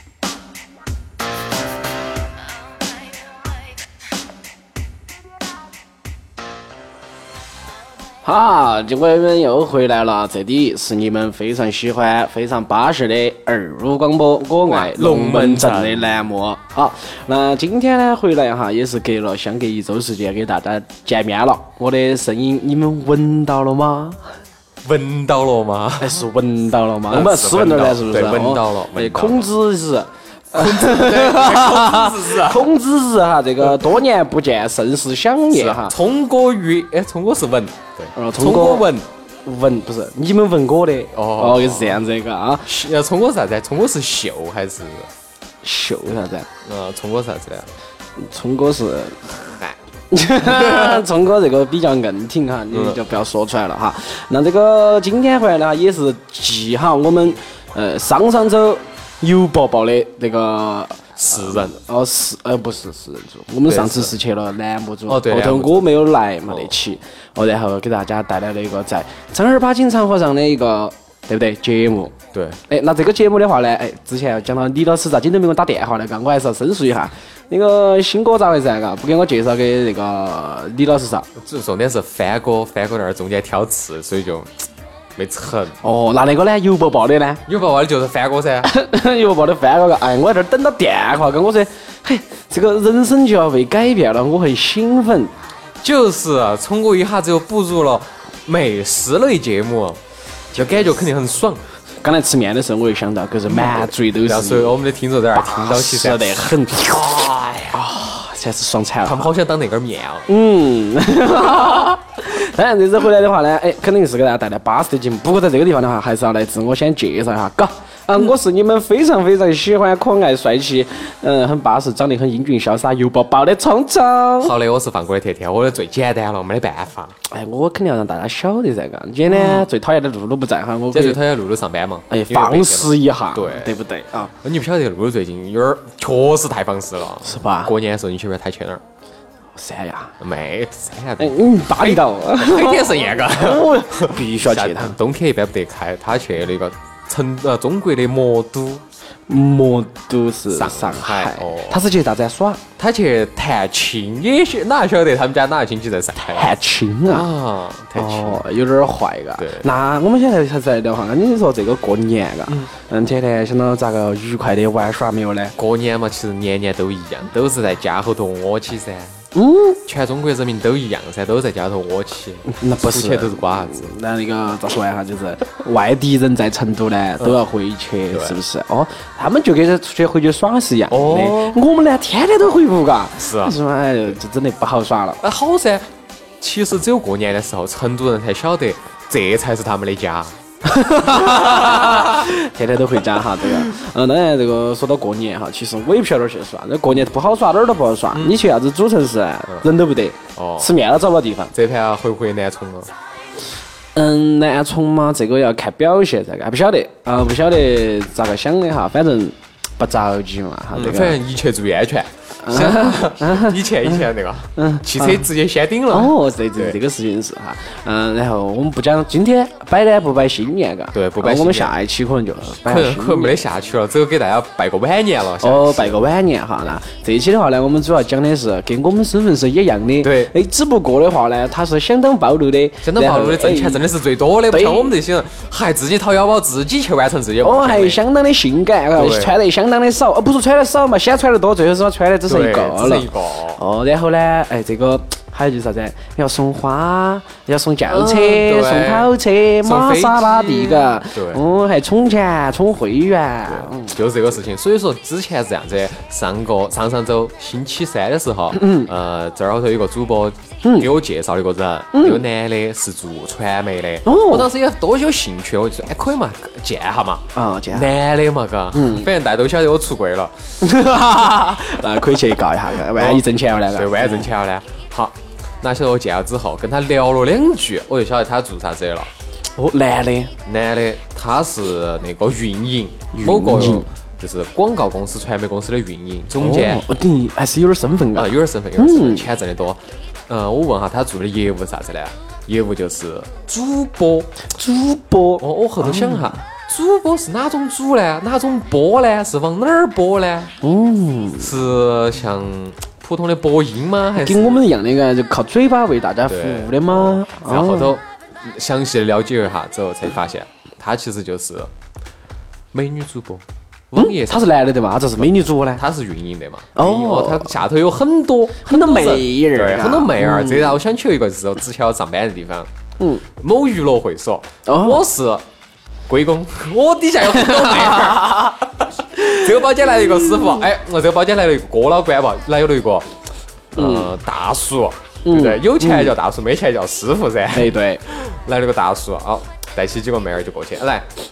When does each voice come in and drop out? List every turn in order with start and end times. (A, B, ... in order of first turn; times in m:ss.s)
0:08.2-0:24.2 A
0:14.7-0:16.3 B
0:24.8-0:26.3 B
0:26.0-0:36.0 A
0:27.1-0:29.5 B
0:30.5-0:32.7 B
0:33.6-0:33.9 B
0:35.5-0:39.1 B
0:38.2-0:38.9 A
0:39.4-0:42.7 A
0:41.1-0:42.0 B
0:42.6-0:45.1 B
0:45.6-0:46.5 A
0:46.6-0:47.7 B
0:48.2-0:49.2 A
0:49.3-0:49.8 B
0:50.1-1:12.2 A
0:50.4-0:51.0 B
0:52.7-0:53.0 B
1:01.2-1:01.7 B
1:03.7-1:04.1 B
1:05.1-1:05.9 B
1:06.5-1:06.7 B
1:12.3-1:12.6 B
1:12.7-1:21.3 A
1:21.4-1:25.8 B
1:25.8-1:27.4 A
1:27.5-1:28.7 B
1:28.6-1:35.3 A
1:35.8-1:40.0 B
1:40.5-1:41.6 B
1:42.0-1:44.8 A
1:43.5-1:47.8 B
1:45.4-1:46.9 A
1:47.7-1:49.3 A
1:49.0-1:50.3 B
1:50.3-2:04.5 A
2:04.4-2:07.2 B
2:07.3-2:11.2 A
2:09.3-2:09.7 B
2:10.9-2:13.8 B
2:12.1-2:14.3 A
2:14.4-2:18.8 B
2:17.2-2:17.7 A
2:19.6-2:20.2 A
2:20.2-2:28.8 B
2:21.2-2:25.0 A
2:29.3-2:32.6 A
2:30.5-2:31.8 B
2:32.8-2:36.6 B
2:36.2-2:37.3 A
2:37.1-2:38.4 B
2:38.0-2:45.6 A
2:39.4-2:39.7 B
2:45.6-2:49.2 B
2:49.3-2:49.8 A
2:49.9-2:54.0 B
2:52.5-3:05.2 A
2:58.1-2:58.4 B
3:00.9-3:01.6 B
3:03.2-3:03.6 B
3:05.2-3:05.9 B
3:06.4-3:10.4 B
3:10.6-3:21.5 A
3:11.1-3:12.3 B
3:13.4-3:13.7 B
3:18.1-3:18.4 B
3:20.4-3:20.7 B
3:21.5-3:22.9 B
3:24.0-3:31.2 A
3:30.7-3:36.8 B
3:32.4-3:34.0 A
3:34.6-3:35.3 A
3:35.9-3:43.4 A
3:40.9-3:41.8 B
3:42.6-3:46.0 B
3:45.4-3:53.8 A
3:50.0-3:50.3 B
3:52.8-3:58.0 B
3:54.5-3:54.9 A
3:57.4-4:14.0 A
3:59.0-3:59.4 B
4:02.3-4:03.6 B
4:07.9-4:09.1 B
4:09.6-4:11.4 B
4:13.5-4:30.5 B
4:18.6-4:18.9 A
4:20.6-4:20.9 A
4:21.9-4:22.2 A
4:24.0-4:24.5 A
4:27.3-4:27.9 A
4:28.7-4:29.1 A
4:30.6-4:34.3 A
4:32.9-4:39.1 B
4:39.6-4:40.3 A
4:40.4-4:46.8 B
4:43.1-4:43.9 A
4:46.4-4:49.3 A
4:48.1-4:54.4 B
4:54.5-4:56.3 A
4:55.4-5:00.5 B
5:00.6-5:01.5 A
5:01.4-5:04.6 B
5:04.2-5:08.0 A
5:06.3-5:11.7 B
5:12.7-5:14.5 B
5:14.0-5:15.8 A
5:15.2-5:22.7 B
5:16.8-5:17.6 A
5:18.7-5:20.8 A
5:23.3-5:25.4 B
5:24.7-5:25.0 A
5:26.1-5:33.1 B
5:27.3-5:28.5 A
5:29.2-5:29.5 A
5:33.7-5:41.1 B
5:33.8-5:34.1 A
5:35.2-5:36.2 A
5:37.5-5:38.0 A